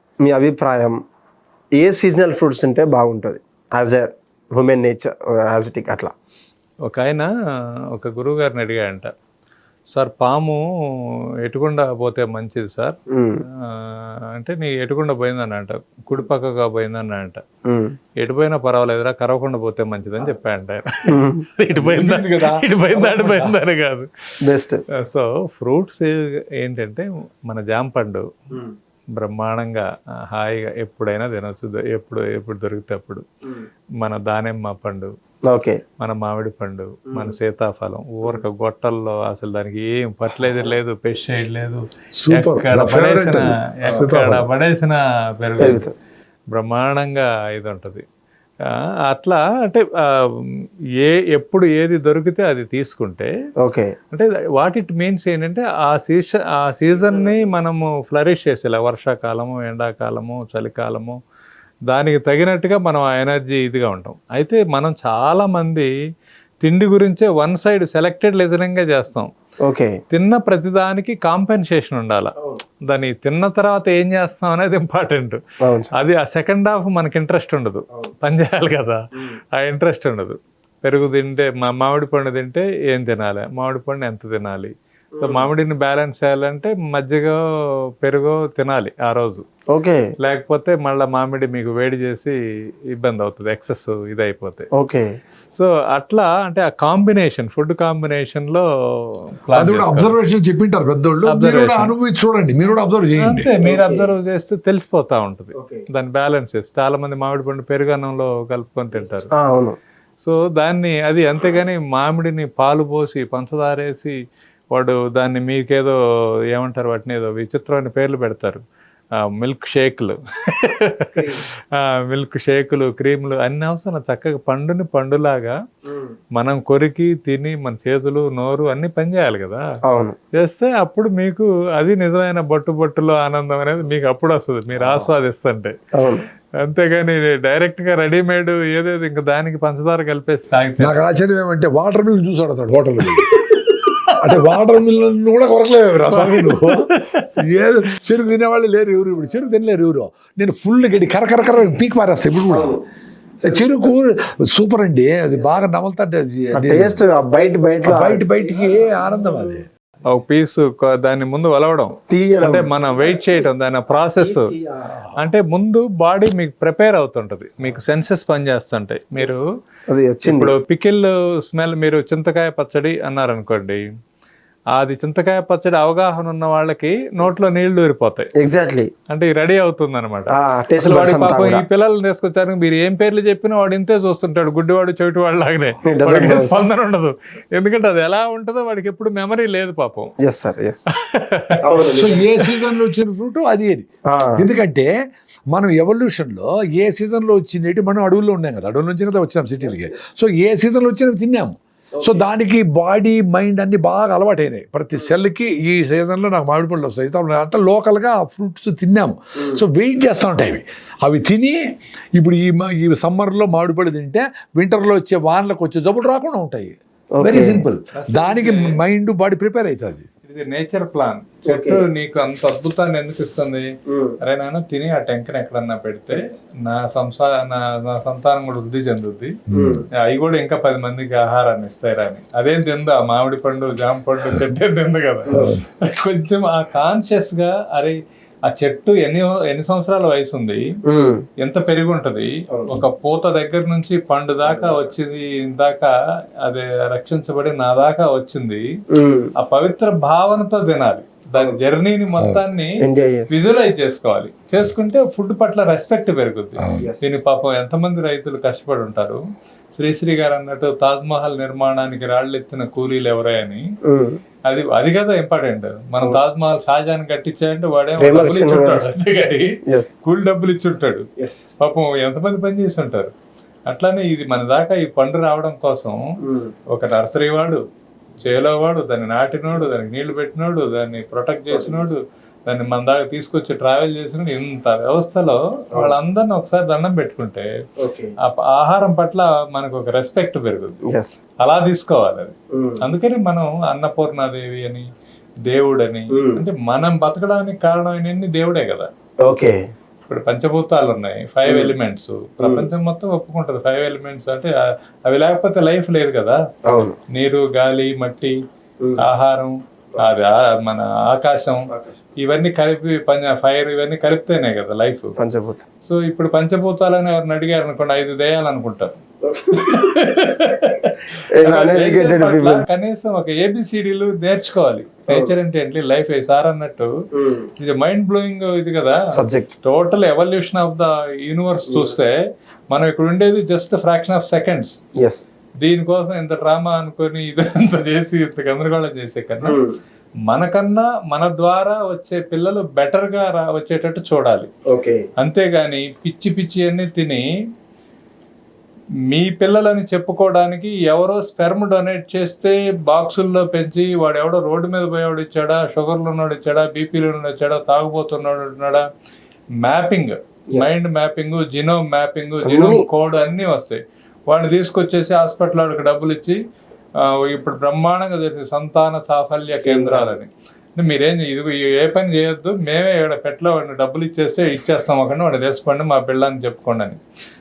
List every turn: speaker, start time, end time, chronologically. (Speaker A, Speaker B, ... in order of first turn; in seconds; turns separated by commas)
Speaker A: 0.2-1.0, Speaker A: 1.7-6.1, Speaker B: 6.9-7.3, Speaker B: 8.0-9.1, Speaker B: 9.9-10.6, Speaker B: 11.4-13.0, Speaker A: 13.1-13.4, Speaker B: 13.7-17.4, Speaker A: 17.7-18.0, Speaker B: 18.2-20.9, Speaker A: 21.1-21.4, Speaker B: 21.5-24.1, Speaker C: 21.7-23.6, Speaker A: 24.4-24.8, Speaker B: 25.0-28.3, Speaker B: 29.2-33.2, Speaker B: 34.0-35.1, Speaker A: 35.5-35.8, Speaker B: 36.0-45.9, Speaker C: 42.2-44.4, Speaker A: 45.6-45.9, Speaker B: 46.5-48.0, Speaker B: 49.1-50.2, Speaker B: 51.0-53.3, Speaker A: 53.6-53.9, Speaker B: 54.1-61.2, Speaker A: 57.0-57.3, Speaker B: 61.9-65.9, Speaker B: 66.6-69.3, Speaker A: 69.7-70.0, Speaker B: 70.1-72.3, Speaker B: 72.9-75.4, Speaker A: 75.6-75.9, Speaker B: 75.9-79.0, Speaker B: 79.5-87.4, Speaker A: 85.2-85.5, Speaker B: 88.0-89.4, Speaker A: 89.7-90.1, Speaker B: 90.2-92.3, Speaker B: 93.0-94.7, Speaker A: 94.8-95.2, Speaker B: 95.5-100.2, Speaker C: 99.5-103.5, Speaker B: 101.3-101.9, Speaker B: 103.2-109.3, Speaker A: 103.6-104.1, Speaker A: 105.6-105.8, Speaker A: 108.9-109.8, Speaker B: 110.2-114.1, Speaker B: 114.7-116.0, Speaker B: 116.5-118.6, Speaker B: 119.4-121.3, Speaker A: 121.2-121.4, Speaker B: 121.8-125.5, Speaker B: 126.4-129.6, Speaker A: 129.9-130.2, Speaker B: 130.3-135.7, Speaker A: 134.8-135.1, Speaker A: 136.0-136.2, Speaker B: 136.6-141.0, Speaker C: 140.8-143.3, Speaker B: 143.2-144.4, Speaker C: 144.2-146.9, Speaker B: 146.1-147.3, Speaker C: 147.4-152.8, Speaker A: 152.5-152.8, Speaker C: 153.4-157.0, Speaker A: 155.4-155.6, Speaker A: 156.5-158.3, Speaker C: 157.8-159.7, Speaker B: 160.1-164.5, Speaker A: 162.1-163.5, Speaker A: 164.2-164.9, Speaker B: 165.2-169.4, Speaker A: 169.2-170.5, Speaker B: 170.3-173.9, Speaker B: 174.8-178.3, Speaker A: 178.4-178.9, Speaker B: 179.1-190.1, Speaker A: 180.3-181.6, Speaker A: 185.9-186.7, Speaker A: 190.2-190.8, Speaker B: 191.0-192.5, Speaker A: 191.6-192.2, Speaker C: 191.9-194.9, Speaker A: 194.1-194.5, Speaker C: 195.5-211.6, Speaker A: 199.6-199.9, Speaker C: 212.2-220.1, Speaker A: 217.1-217.7, Speaker B: 217.9-218.8, Speaker B: 220.2-223.7, Speaker A: 221.5-221.8, Speaker A: 223.9-224.2, Speaker B: 224.2-229.3, Speaker C: 229.5-229.8, Speaker A: 229.5-229.8, Speaker B: 230.1-238.0, Speaker A: 235.3-235.6, Speaker B: 238.5-240.6, Speaker A: 240.9-241.2, Speaker B: 241.4-245.9, Speaker A: 242.6-242.8, Speaker A: 244.5-244.9, Speaker B: 246.4-248.6, Speaker A: 248.9-249.3, Speaker B: 249.4-252.8, Speaker C: 252.2-252.4, Speaker A: 252.8-253.3, Speaker B: 253.3-259.2, Speaker C: 256.6-256.9, Speaker A: 256.8-257.2, Speaker B: 259.8-263.6, Speaker A: 263.9-264.2, Speaker B: 264.5-271.1, Speaker A: 268.0-268.9, Speaker B: 271.6-273.1, Speaker B: 273.7-276.0, Speaker A: 276.3-276.5, Speaker B: 276.7-277.6, Speaker B: 278.2-287.5, Speaker A: 281.5-281.9, Speaker A: 287.8-288.1, Speaker B: 288.2-290.8, Speaker A: 290.9-291.2, Speaker B: 291.4-294.8, Speaker A: 292.5-292.8, Speaker B: 295.4-298.9, Speaker A: 296.1-296.4, Speaker A: 299.2-299.6, Speaker B: 300.1-304.5, Speaker A: 301.5-301.7, Speaker A: 302.4-302.7, Speaker B: 305.1-306.4, Speaker A: 306.7-307.0, Speaker B: 307.1-308.3, Speaker B: 309.0-315.1, Speaker A: 315.2-315.6, Speaker B: 315.9-318.9, Speaker A: 319.2-319.9, Speaker B: 319.6-326.9, Speaker A: 321.4-322.7, Speaker A: 327.2-327.5, Speaker B: 327.6-329.0, Speaker A: 329.1-329.5, Speaker B: 329.6-332.1, Speaker A: 331.7-332.0, Speaker B: 332.7-334.8, Speaker B: 335.6-339.6, Speaker A: 339.4-339.8, Speaker B: 340.3-344.5, Speaker A: 344.7-345.1, Speaker B: 345.2-347.2, Speaker B: 349.1-358.8, Speaker B: 359.6-366.4, Speaker A: 362.4-362.9, Speaker B: 367.1-377.0, Speaker A: 369.6-370.2